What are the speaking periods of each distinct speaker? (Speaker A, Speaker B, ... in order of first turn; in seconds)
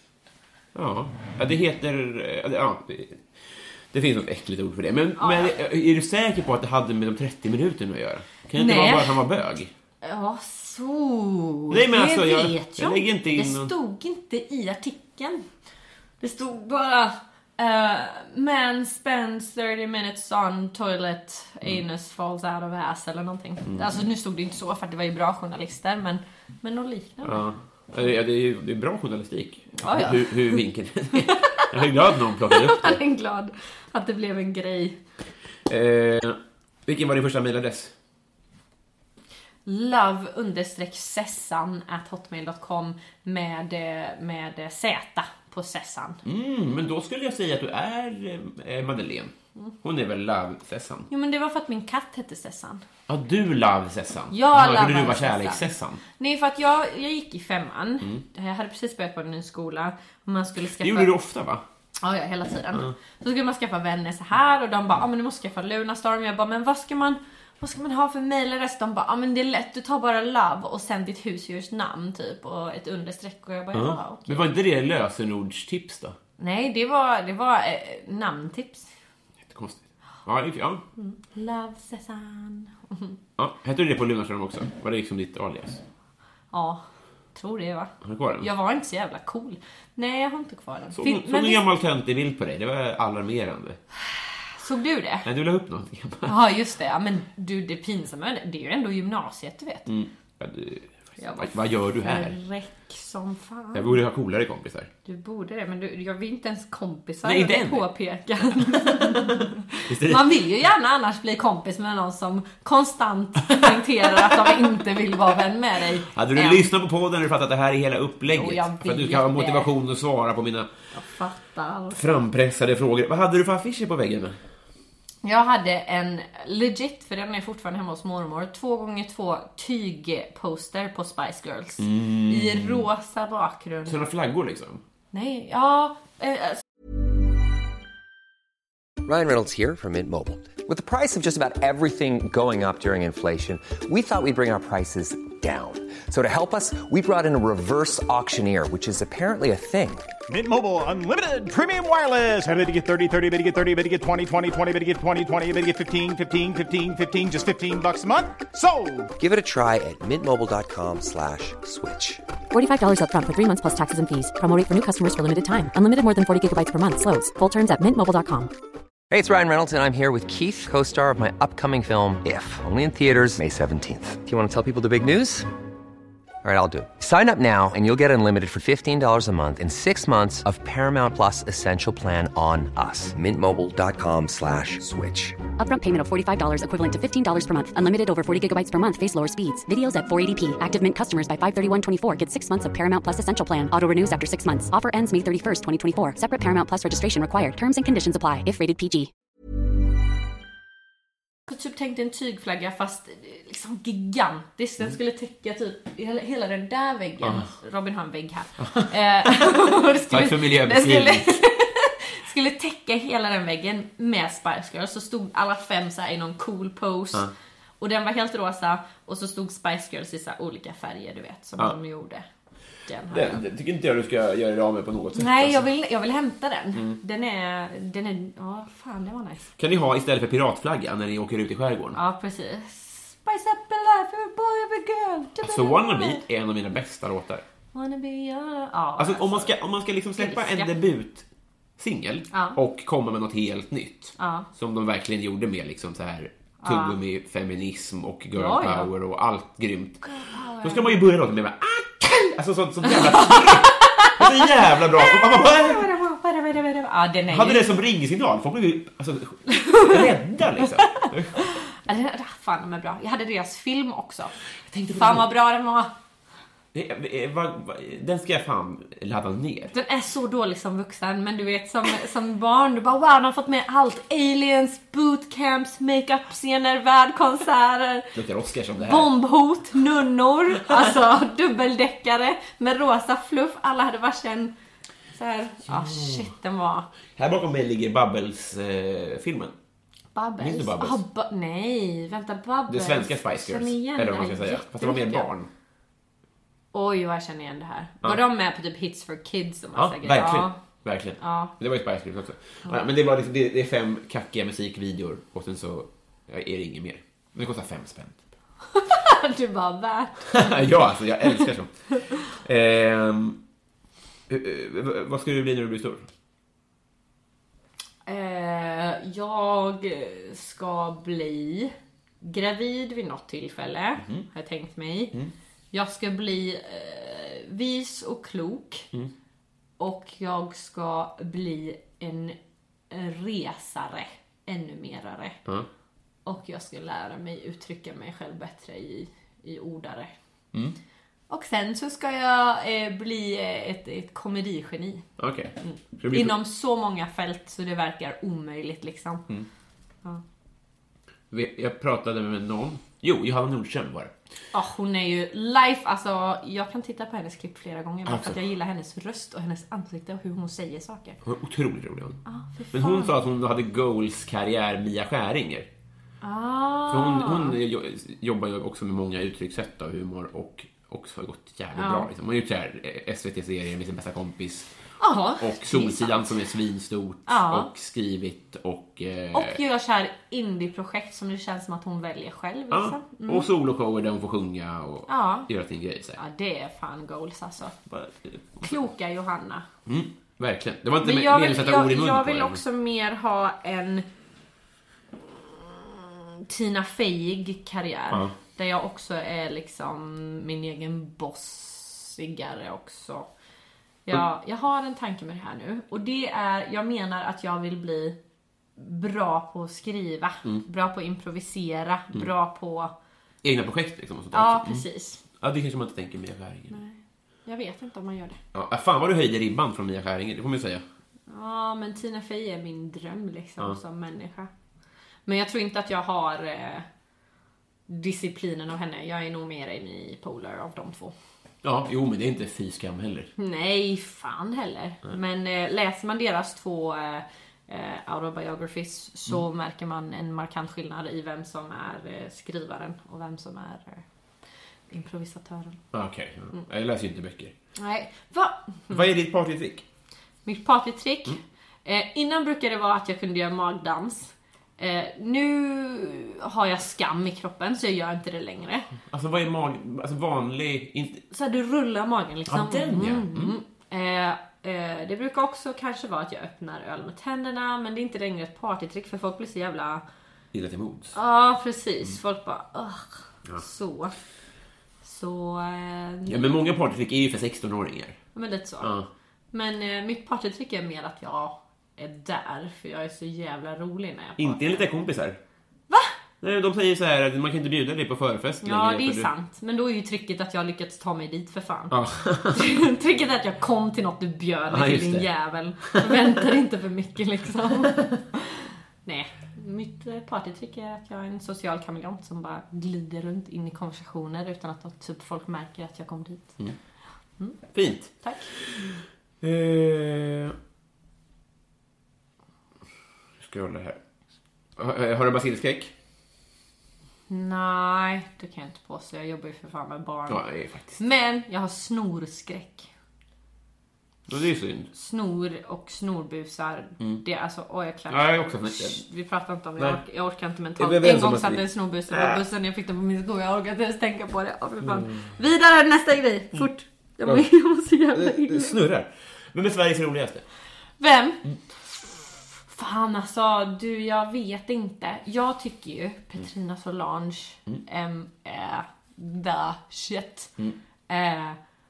Speaker A: 0.8-9.7, 11.7-13.7, 27.2-33.0, 35.7-37.9, 46.2-51.1, 53.1-56.0, 60.8-61.6, 73.7-76.2, 79.4-80.8, 83.4-85.8, 88.0-88.5, 90.9-93.8, 95.2-96.4, 99.9-102.4, 103.7-104.9, 107.2-107.8, 109.9-110.4, 116.1-120.7, 121.9-124.4, 131.8-132.9, 133.9-134.8, 207.2-207.5, 208.6-209.4, 210.1-211.3, 223.1-225.7, 226.7-227.0, 229.6-232.0, 235.4-237.4, 239.0-241.2, 241.8-250.1, 250.6-255.9, 257.3-261.4, 264.7-265.3, 266.7-269.7, 278.1-279.1, 285.7-286.3, 287.1-289.5, 290.4-291.0, 292.7-295.5, 299.8-308.2, 310.3-313.4, 314.3-316.1, 324.0-324.3, 345.2-346.4, 351.3-354.1, 358.1-358.4, 361.2-362.2, 362.7-365.7, 366.9-374.7, 375.4-379.6, 382.7-386.2, 387.9-388.7, 389.9-392.6, 413.4-414.9, 415.4-416.8, 418.5-420.9, 431.6-433.3, 445.9-447.5, 448.9-449.9, 459.1-461.2, 462.5-463.6, 470.5-471.1, 476.3-478.2, 478.8-479.1, 484.4-485.4, 486.4-489.3, 491.9-492.8, 494.7-495.3, 495.8-496.2, 507.7-510.6, 513.4-514.0, 514.8-515.9, 520.3-521.0, 524.3-524.9, 528.1-529.0, 530.8-532.4, 534.8-535.4, 538.1-540.4
Speaker B: 5.2-5.5, 8.6-9.2, 10.0-15.4, 16.2-27.4, 29.8-30.6, 31.1-31.9, 32.4-35.0, 39.6-46.2, 51.1-52.8, 54.3-61.1, 62.0-74.5, 76.4-78.9, 81.0-83.2, 86.5-86.8, 87.3-91.6, 94.5-95.3, 96.2-99.9, 101.2-104.0, 105.0-116.7, 118.3-119.7, 120.9-122.0, 125.2-134.1, 135.1-136.6, 201.5-222.2, 222.9-223.4, 225.1-229.5, 231.9-236.2, 237.7-239.5, 240.2-240.7, 242.3-242.6, 244.2-244.5, 246.6-247.0, 248.3-248.9, 250.0-251.0, 252.8-257.8, 259.5-264.4, 264.9-265.9, 269.7-278.1, 278.8-284.5, 285.1-286.9, 290.1-295.3, 296.7-300.6, 301.2-301.5, 308.7-310.7, 318.1-325.1, 325.7-328.9, 329.8-332.4, 332.9-335.4, 336.3-340.1, 341.3-345.1, 345.6-349.3, 354.5-361.2, 362.3-363.1, 366.2-367.6, 371.8-372.1, 375.0-376.4, 377.3-377.7, 379.3-383.4, 385.1-385.5, 386.2-387.8, 388.6-389.7, 391.0-394.0, 395.3-403.3, 404.1-408.1, 408.8-412.9, 414.3-415.2, 416.7-418.4, 421.3-424.5, 425.2-426.9, 427.9-431.1, 433.4-444.0, 444.9-445.8, 447.8-449.0, 450.4-458.9, 461.3-470.0, 471.1-474.1, 475.0-476.4, 478.4-478.9, 479.5-484.9, 485.9-486.1, 488.6-491.9, 492.5-506.6, 508.2-508.5, 517.3-520.4, 521.0-522.9, 524.9-538.8, 541.0-550.5, 551.1-551.6
Speaker C: 139.1-150.1, 159.2-162.2, 169.1-175.5, 176.4-185.4
Speaker D: 150.3-159.1
Speaker E: 162.5-168.5, 185.6-199.1